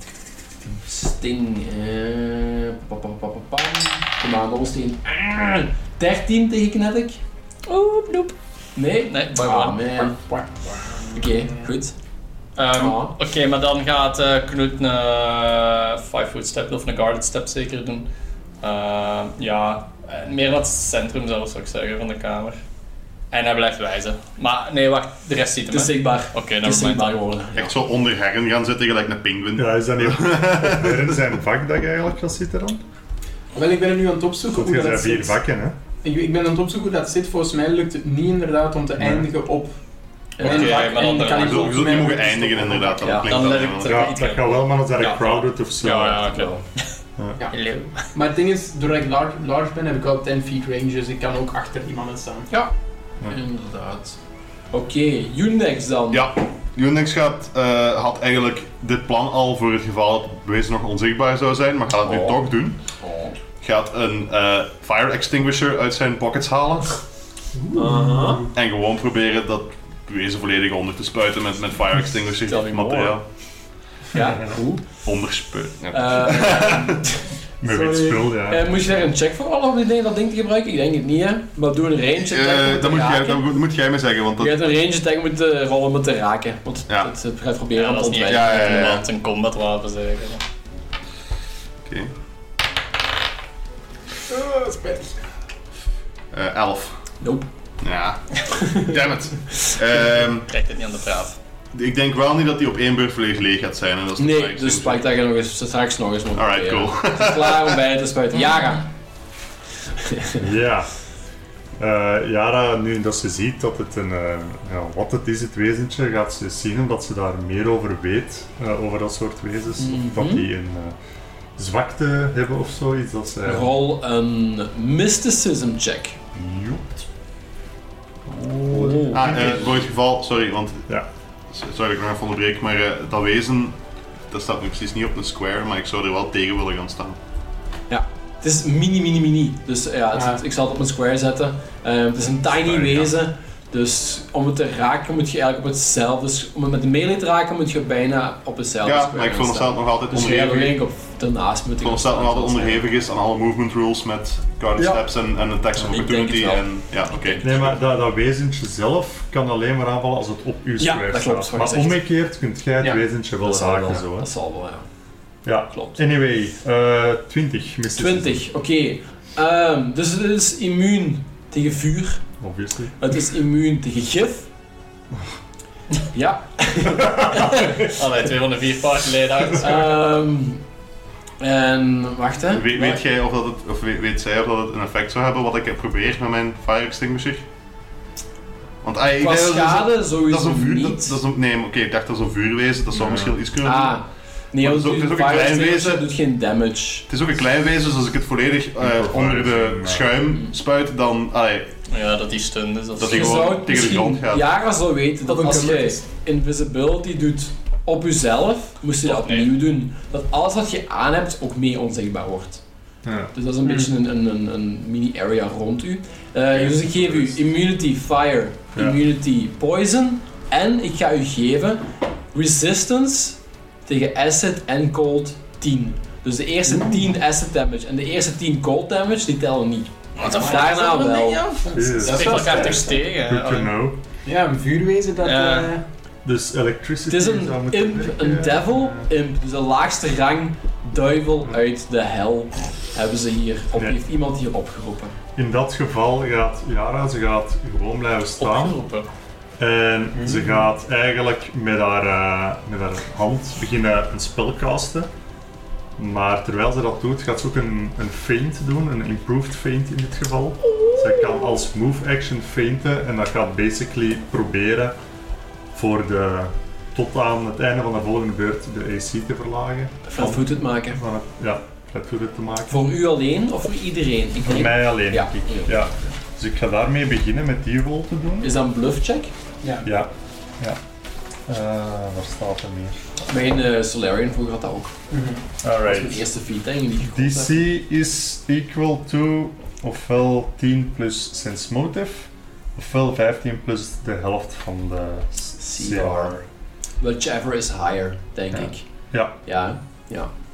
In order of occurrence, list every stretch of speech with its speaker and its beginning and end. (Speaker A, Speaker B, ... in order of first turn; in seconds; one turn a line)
Speaker A: 0.6-7.2
Speaker B: 7.7-8.3
Speaker A: 8.8-10.2
Speaker B: 9.1-9.8
Speaker C: 10.2-11.7
Speaker A: 11.1-11.9
Speaker B: 12.6-18.1
Speaker A: 12.7-13.1
Speaker B: 18.6-22.6
Speaker B: 23.3-27.2
Speaker A: 25.7-27.8
Speaker D: 27.6-31.0
Speaker E: 29.6-32.8
Speaker C: 33.5-35.4
Speaker E: 34.5-35.8
Speaker C: 36.0-39.7
Speaker E: 39.0-39.3
Speaker A: 40.4-41.2
Speaker C: 40.4-43.2
Speaker B: 40.4-41.8
Speaker D: 41.3-44.1
Speaker A: 43.0-43.3
Speaker B: 43.3-46.9
Speaker E: 43.8-46.3
Speaker A: 46.2-46.6
Speaker B: 47.5-48.1
Speaker C: 48.1-52.5
Speaker A: 53.3-54.2
Speaker A: 54.7-56.3
Speaker D: 56.1-62.8
Speaker A: 62.0-62.4
Speaker A: 63.0-63.4
Speaker D: 63.6-67.0
Speaker E: 67.5-68.5
Speaker A: 67.7-68.4
Speaker D: 68.5-73.2
Speaker A: 72.5-73.2
Speaker A: 74.1-74.9
Speaker E: 74.1-74.6
Speaker D: 75.0-77.1
Speaker A: 75.9-77.1
Speaker E: 77.6-78.7
Speaker A: 77.6-83.5
Speaker D: 82.2-84.6
Speaker A: 84.4-88.8
Speaker B: 87.7-90.4
Speaker D: 88.2-89.0
Speaker D: 91.8-92.1
Speaker C: 94.3-95.2
Speaker D: 96.3-97.0
Speaker A: 97.2-97.5
Speaker D: 97.8-100.5
Speaker A: 98.5-99.0
Speaker B: 100.5-101.4
Speaker D: 101.7-105.0
Speaker A: 104.2-108.8
Speaker D: 106.3-107.8
Speaker B: 108.5-108.8
Speaker A: 110.0-110.5
Speaker E: 110.4-110.9
Speaker E: 111.8-121.0
Speaker A: 119.8-120.5
Speaker E: 121.6-123.7
Speaker A: 123.5-126.2
Speaker E: 126.3-127.0
Speaker E: 128.3-129.8
Speaker A: 128.7-129.4
Speaker D: 129.1-130.9
Speaker D: 131.5-133.8
Speaker D: 134.3-137.2
Speaker A: 137.9-152.8
Speaker C: 140.2-140.4
Speaker D: 148.8-150.8
Speaker D: 151.8-157.8
Speaker A: 155.8-156.7
Speaker E: 157.4-164.3
Speaker A: 160.8-162.0
Speaker A: 163.4-164.9
Speaker E: 165.4-168.4
Speaker A: 165.7-166.0
Speaker A: 167.9-172.2
Speaker E: 172.4-172.9
Speaker A: 173.0-174.5
Speaker A: 176.1-177.7
Speaker E: 177.0-177.7
Speaker B: 177.3-180.0
Speaker A: 179.6-180.6
Speaker A: 181.4-182.8
Speaker D: 182.5-187.4
Speaker D: 188.8-194.0
Speaker A: 189.2-191.2
Speaker E: 192.9-193.4
Speaker A: 193.6-197.1
Speaker D: 194.6-196.1
Speaker D: 197.1-201.7
Speaker E: 198.8-200.2
Speaker B: 201.9-203.4
Speaker D: 203.0-204.5
Speaker A: 203.0-212.6
Speaker C: 205.3-206.0
Speaker B: 209.0-209.5
Speaker E: 213.0-213.3
Speaker A: 213.3-231.5
Speaker D: 216.8-217.2
Speaker E: 218.7-219.0
Speaker B: 230.2-233.7
Speaker C: 230.2-230.6
Speaker E: 231.7-234.0
Speaker C: 231.9-232.9
Speaker C: 234.2-235.8
Speaker B: 235.2-235.7
Speaker E: 236.2-239.1
Speaker A: 237.1-245.2
Speaker E: 245.4-248.8
Speaker B: 248.4-249.1
Speaker E: 249.6-255.1
Speaker C: 250.2-250.6
Speaker E: 256.0-265.0
Speaker E: 265.7-272.9
Speaker A: 270.1-271.0
Speaker A: 272.7-276.1
Speaker E: 274.4-278.6
Speaker A: 278.4-279.3
Speaker C: 279.6-279.9
Speaker E: 279.8-280.8
Speaker E: 281.5-283.0
Speaker A: 283.3-284.9
Speaker C: 285.1-285.9
Speaker E: 285.6-286.2
Speaker A: 285.9-287.7
Speaker E: 287.0-296.4
Speaker A: 295.6-296.4
Speaker A: 297.0-298.9
Speaker E: 298.5-299.4
Speaker A: 299.4-300.3